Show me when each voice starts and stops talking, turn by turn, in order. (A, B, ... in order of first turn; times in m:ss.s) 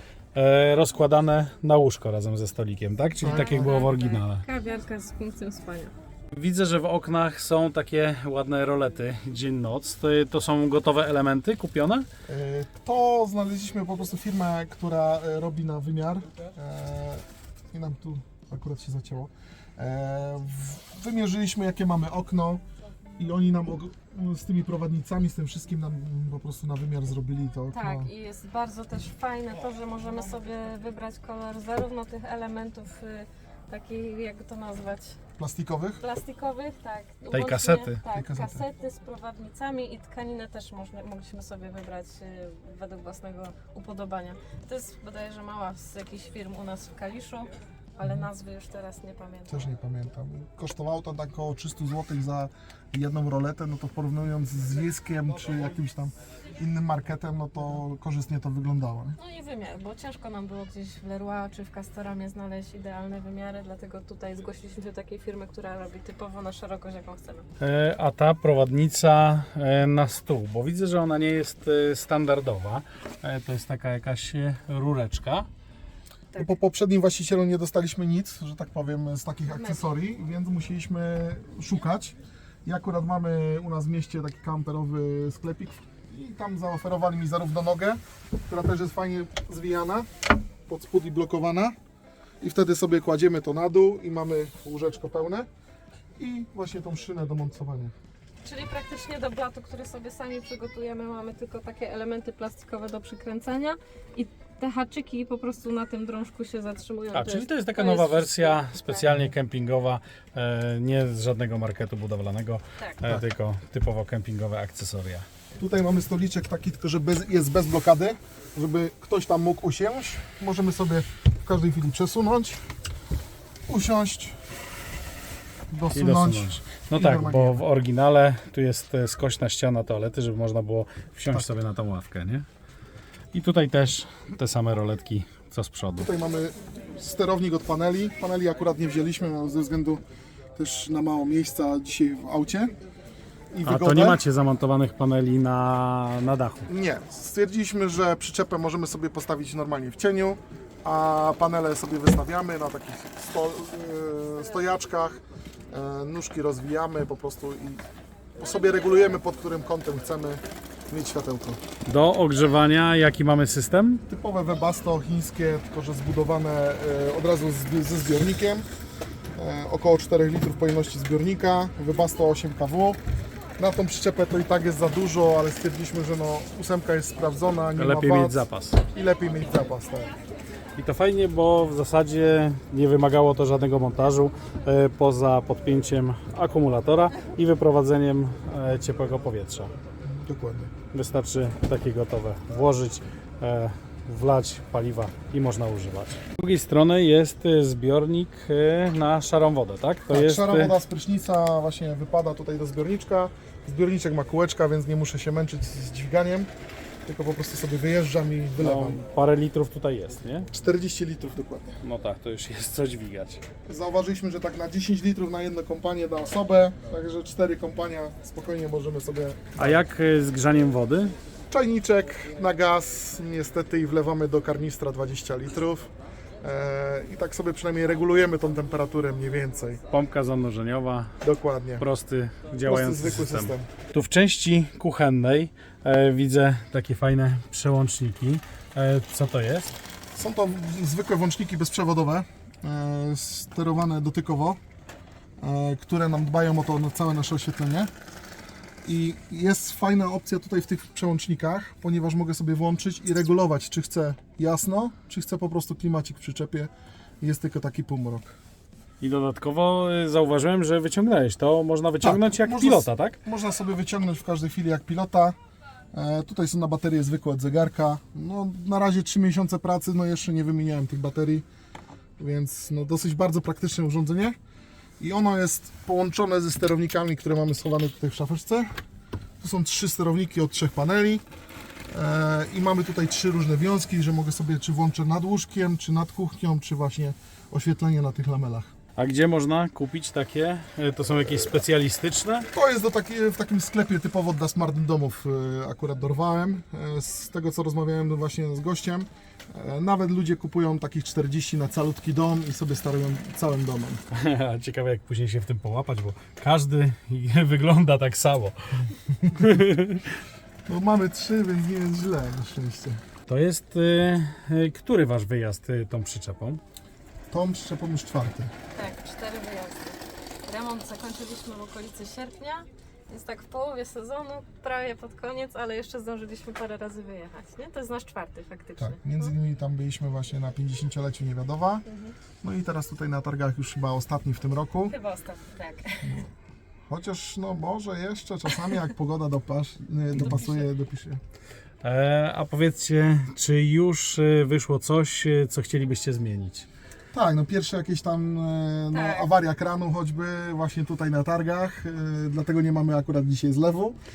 0:00.3-0:04.4 A
0:03.2-0:05.9 B
0:03.2-0:03.8 C
0:06.3-0:12.1 A
0:12.3-0:22.6 C
0:23.2-0:28.1 C
0:27.7-0:35.2 B
0:35.4-0:36.0 C
0:36.0-0:49.7 B
0:37.3-0:38.0 A
0:38.1-0:38.6 C
0:48.0-0:48.3 C
0:49.5-0:59.2 C
0:59.2-1:07.4 B
1:07.6-1:15.5 A
1:16.3-1:30.1 C
1:19.5-1:19.9 B
1:30.7-1:31.7 C
1:32.4-1:35.5 C
1:36.2-1:37.9 C
1:38.4-1:48.9 B
1:47.1-1:55.2 A
1:55.6-2:02.6 C
2:03.7-2:04.4 C
2:05.7-2:07.6 C
2:05.9-2:12.4 A
2:11.3-2:11.6 C
2:13.3-2:16.1 A
2:16.0-2:20.0 C
2:20.6-2:22.8 C
2:23.5-2:24.2 C
2:23.6-2:26.7 A
2:26.7-2:37.8 C
2:38.4-2:41.6 C
2:41.9-2:44.0 A
2:44.1-2:48.7 C
2:49.4-2:53.0 C
2:53.6-3:00.1 C
2:57.8-2:58.8 A
3:00.8-3:09.7 A
3:10.0-3:10.7 C
3:10.9-3:20.8 A
3:20.1-3:26.5 C
3:27.0-3:29.0 C
3:28.6-3:30.5 A
3:30.5-3:31.8 C
3:31.8-3:33.4 A
3:33.6-3:39.8 C
3:39.6-3:41.1 A
3:41.5-3:45.9 C
3:46.4-3:49.8 C
3:49.9-3:51.1 A
3:51.2-3:51.8 C
3:51.8-3:59.7 A
3:52.6-3:53.7 C
4:00.2-4:04.6 C
4:05.4-4:07.9 C
4:08.8-4:18.3 C
4:19.0-4:23.2 A
4:22.0-4:25.4 C
4:25.9-4:31.4 C
4:32.2-4:34.4 C
4:35.0-4:38.7 C
4:39.4-4:41.2 C
4:41.9-4:48.7 C
4:49.0-4:52.5 A
4:52.5-5:04.0 C
5:04.1-5:10.1 A
5:10.6-5:13.0 C
5:13.3-5:16.6 A
5:17.3-5:18.5 C
5:18.7-5:29.3 B
5:28.8-5:31.8 C
5:31.9-5:32.1 B
5:32.4-5:35.0 C
5:34.9-5:36.2 B
5:36.0-5:36.3 C
5:36.9-5:41.2 C
5:40.2-5:40.7 B
5:41.8-5:46.7 A
5:47.1-5:54.0 C
5:48.9-5:49.3 B